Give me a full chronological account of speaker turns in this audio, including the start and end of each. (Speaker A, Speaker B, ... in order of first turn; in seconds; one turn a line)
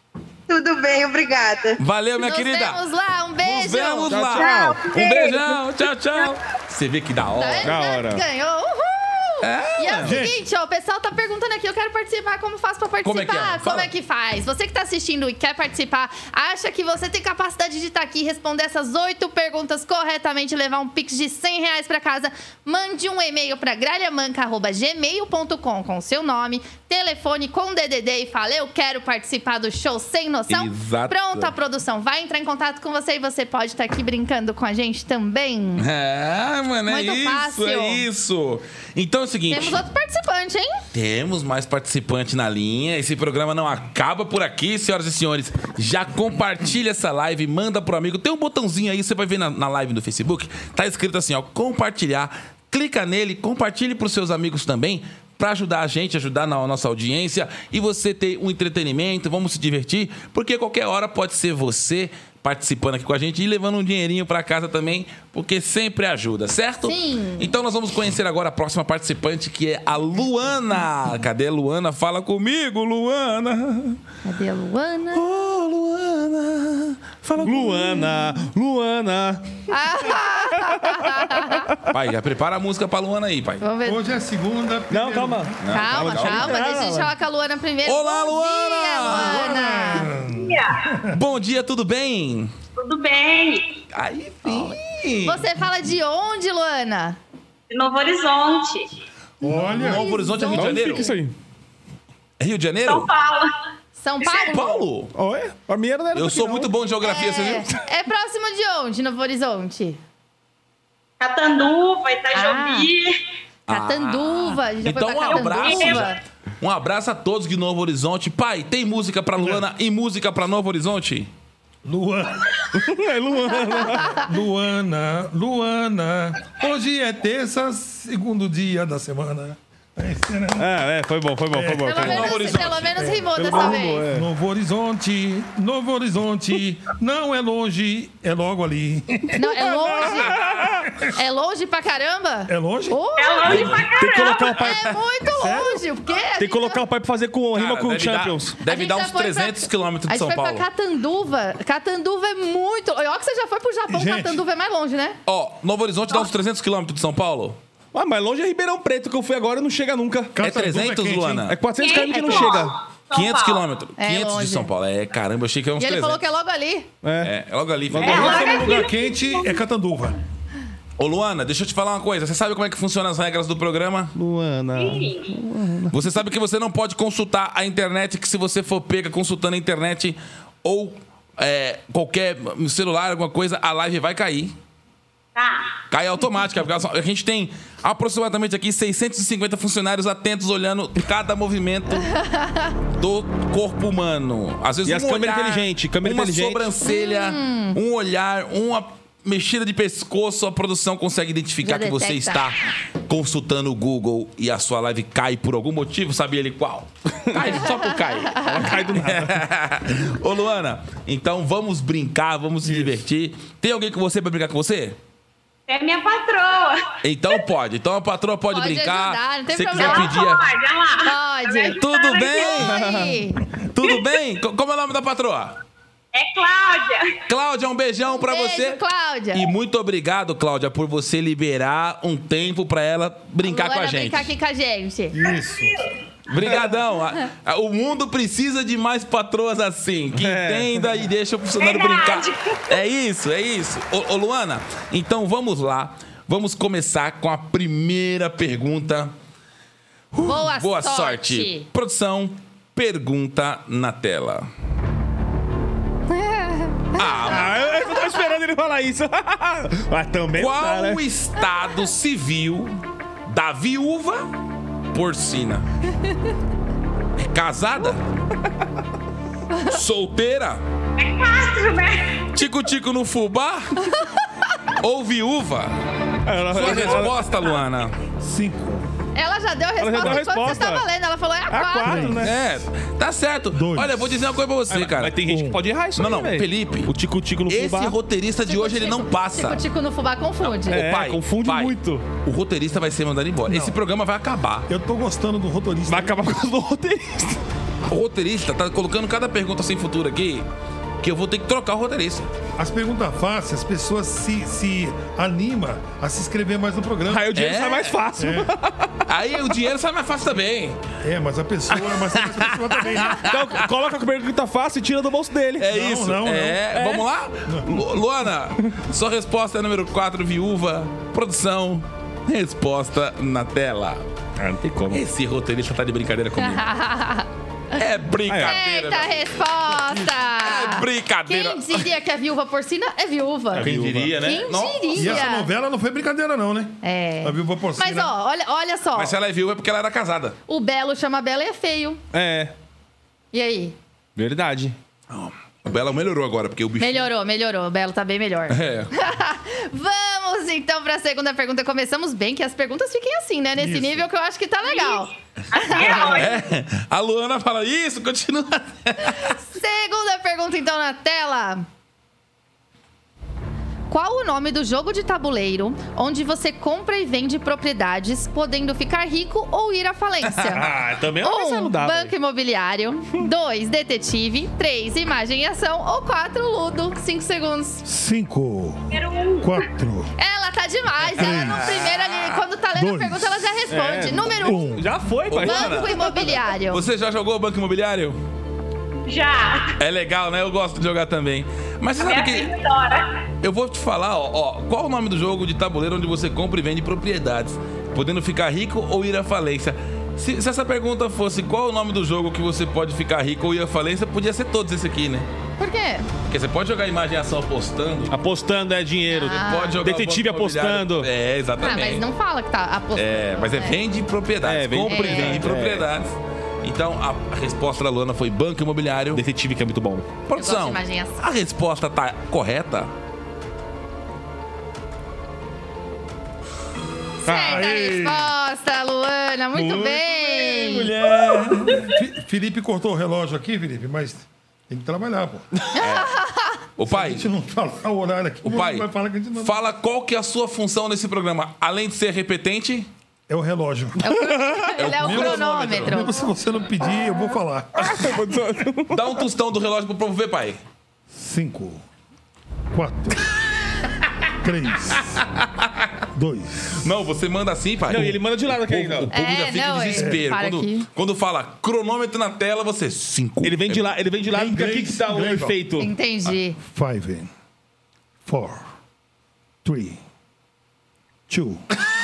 Speaker A: 0.5-1.8
Speaker B: 1.8-2.8
Speaker C: 2.2-4.1
Speaker B: 3.4-7.7
Speaker D: 4.1-4.9
Speaker A: 4.3-5.6
Speaker C: 7.4-35.9
Speaker D: 7.6-8.2
Speaker B: 9.4-10.2
Speaker E: 10.0-10.4
Speaker B: 13.0-13.9
Speaker B: 30.5-31.5
Speaker B: 35.8-39.8
Speaker C: 36.9-38.0
Speaker C: 39.5-40.8
Speaker B: 40.9-74.0
Speaker C: 66.8-67.5
Speaker C: 74.2-75.2
Speaker B: 75.1-77.0
Speaker D: 77.2-81.9
Speaker C: 79.7-81.7
Speaker B: 81.9-83.6
Speaker C: 83.6-84.0
Speaker E: 83.8-86.2
Speaker D: 84.9-87.1
Speaker B: 85.6-86.7
Speaker C: 85.7-90.1
Speaker B: 87.8-89.6
Speaker E: 89.0-91.2
Speaker F: 90.3-90.9
Speaker B: 91.1-92.5
Speaker F: 92.8-93.8
Speaker B: 93.9-95.4
Speaker C: 94.4-97.2
Speaker F: 97.7-98.9
Speaker E: 99.4-100.2
Speaker C: 99.5-101.2
Speaker B: 99.6-101.1
Speaker D: 100.4-101.3
Speaker B: 102.4-103.1
Speaker F: 102.8-103.5
Speaker C: 104.0-104.8
Speaker B: 104.4-105.1
Speaker D: 105.1-106.7
Speaker B: 106.1-107.7
Speaker C: 107.0-110.0
Speaker F: 111.2-113.2
Speaker C: 112.3-112.9
Speaker B: 113.7-121.3
Speaker C: 113.7-116.2
Speaker F: 115.3-116.1
Speaker E: 121.8-122.8
Speaker D: 122.7-124.2
Speaker C: 123.9-124.2
Speaker E: 124.1-130.8
Speaker D: 130.6-132.4
Speaker E: 131.5-132.1
Speaker C: 131.8-134.1
Speaker B: 131.9-132.9
Speaker E: 132.9-139.4
Speaker D: 133.4-134.2
Speaker C: 139.3-140.4
Speaker D: 139.8-140.9
Speaker C: 141.1-146.8
Speaker E: 142.5-143.0
Speaker F: 143.2-144.5
Speaker B: 143.4-143.8
Speaker D: 143.9-144.9
Speaker B: 144.6-145.0
Speaker E: 145.3-145.8
Speaker D: 146.4-148.6
Speaker B: 147.5-150.6
Speaker C: 148.7-155.2
Speaker E: 153.9-154.4
Speaker B: 155.2-157.6
Speaker D: 157.9-160.3
Speaker E: 160.3-161.5
Speaker B: 160.4-161.6
Speaker D: 161.4-162.7
Speaker F: 161.7-163.6
Speaker C: 162.1-162.7
Speaker B: 163.1-166.2
Speaker C: 164.0-164.7
Speaker C: 165.8-166.9
Speaker D: 167.0-167.3
Speaker B: 167.2-168.6
Speaker D: 167.9-168.7
Speaker F: 168.0-169.6
Speaker E: 168.0-170.2
Speaker B: 171.0-174.1
Speaker D: 174.1-175.9
Speaker F: 174.7-175.4
Speaker B: 175.9-184.5
Speaker F: 185.3-185.7
Speaker B: 185.9-192.1
Speaker C: 192.1-192.7
Speaker B: 193.0-215.0
Speaker D: 194.8-196.7
Speaker C: 196.8-197.8
Speaker C: 201.6-202.5
Speaker D: 208.3-209.4
Speaker C: 208.4-208.7
Speaker F: 215.7-217.0
Speaker B: 217.0-220.5
Speaker C: 218.5-220.3
Speaker F: 219.7-222.7
Speaker C: 221.0-221.8
Speaker B: 221.7-222.8
Speaker C: 222.3-223.4
Speaker D: 222.6-223.3
Speaker B: 223.7-225.6
Speaker F: 226.1-227.2
Speaker B: 227.3-228.8
Speaker C: 228.2-229.5
Speaker B: 229.3-234.3
Speaker C: 233.4-235.2
Speaker E: 235.1-235.8
Speaker B: 236.3-249.1
Speaker D: 240.1-240.9
Speaker F: 241.6-242.8
Speaker C: 250.2-251.7
Speaker B: 250.2-254.5
Speaker C: 256.1-257.9
Speaker B: 256.9-257.6
Speaker D: 257.2-261.0
Speaker B: 260.3-264.3
Speaker B: 264.9-265.7
Speaker B: 267.2-268.0
Speaker B: 269.7-270.6
Speaker F: 271.0-272.2
Speaker B: 272.3-273.9
Speaker C: 273.9-274.5
Speaker B: 274.8-275.8
Speaker D: 276.2-277.3
Speaker B: 276.5-277.9
Speaker E: 278.2-278.9
Speaker C: 279.1-282.1
Speaker D: 279.8-280.9
Speaker E: 280.0-280.7
Speaker D: 281.5-282.4
Speaker E: 281.8-282.3
Speaker B: 282.2-285.2
Speaker E: 283.5-284.2
Speaker D: 284.7-287.9
Speaker E: 285.2-285.6
Speaker B: 285.9-286.9
Speaker B: 287.5-289.6
Speaker C: 288.4-290.8
Speaker B: 290.4-294.7
Speaker D: 290.7-292.0
Speaker E: 293.5-293.8
Speaker E: 294.7-296.2
Speaker D: 295.9-297.4
Speaker B: 297.9-300.5
Speaker B: 301.0-302.3
Speaker E: 302.6-307.3
Speaker D: 307.1-308.9
Speaker B: 307.3-308.0
Speaker E: 308.2-308.5
Speaker B: 309.1-310.8
Speaker E: 311.0-313.3
Speaker B: 312.2-313.7
Speaker D: 313.2-315.7
Speaker B: 315.6-324.1
Speaker E: 315.6-316.7
Speaker D: 316.7-317.0
Speaker E: 317.4-317.8
Speaker D: 324.4-325.0
Speaker B: 324.9-326.6
Speaker C: 326.4-327.3
Speaker B: 327.7-329.3
Speaker D: 328.2-328.6
Speaker C: 328.4-335.5
Speaker B: 330.4-331.9
Speaker D: 333.5-334.2
Speaker B: 333.6-335.2
Speaker E: 334.9-338.1
Speaker C: 336.8-339.1
Speaker B: 338.9-340.4
Speaker C: 340.5-342.0
Speaker D: 342.1-342.5
Speaker C: 343.3-343.8
Speaker D: 344.1-344.8
Speaker B: 345.1-347.1
Speaker C: 346.8-356.3
Speaker B: 348.5-348.9
Speaker F: 354.7-356.4
Speaker B: 356.0-359.3
Speaker C: 359.0-361.6
Speaker C: 363.9-377.8
Speaker D: 370.5-372.1
Speaker E: 377.8-380.1
Speaker F: 378.9-379.6
Speaker C: 380.2-384.7
Speaker E: 381.1-381.7
Speaker B: 381.2-382.4
Speaker E: 382.7-383.6
Speaker D: 383.7-386.1
Speaker E: 384.3-384.9
Speaker B: 385.3-388.2
Speaker C: 385.4-386.8
Speaker F: 389.0-389.8
Speaker B: 389.8-392.5
Speaker F: 392.0-393.2
Speaker B: 393.4-405.3
Speaker C: 405.6-406.1
Speaker B: 406.2-408.1
Speaker D: 408.1-411.1
Speaker C: 409.1-409.8
Speaker B: 409.3-412.1
Speaker C: 411.6-413.8
Speaker B: 412.9-419.2
Speaker D: 414.4-415.9
Speaker C: 414.8-415.5
Speaker D: 419.1-420.1
Speaker B: 420.3-422.9
Speaker C: 420.3-421.2
Speaker C: 427.2-430.9
Speaker D: 427.3-427.6
Speaker E: 427.4-428.3
Speaker D: 429.5-431.6
Speaker E: 430.9-435.5
Speaker C: 435.8-436.6
Speaker B: 435.8-436.1
Speaker B: 436.8-437.3
Speaker E: 436.9-439.6
Speaker B: 438.4-442.9
Speaker E: 443.3-444.2
Speaker C: 444.0-446.1
Speaker D: 444.1-444.7
Speaker B: 444.8-446.0
Speaker E: 445.0-448.1
Speaker D: 447.8-449.0
Speaker B: 448.9-450.6
Speaker E: 451.1-451.8
Speaker E: 452.7-453.3
Speaker E: 454.4-455.2
Speaker B: 454.9-456.0
Speaker E: 456.1-456.9
Speaker B: 456.7-463.9
Speaker D: 457.9-459.1
Speaker C: 459.1-460.9
Speaker E: 459.9-460.2
Speaker D: 463.4-465.9
Speaker E: 464.3-465.6
Speaker C: 465.8-466.6
Speaker E: 466.6-467.3
Speaker E: 468.2-468.7
Speaker E: 469.6-470.0
Speaker E: 471.3-471.6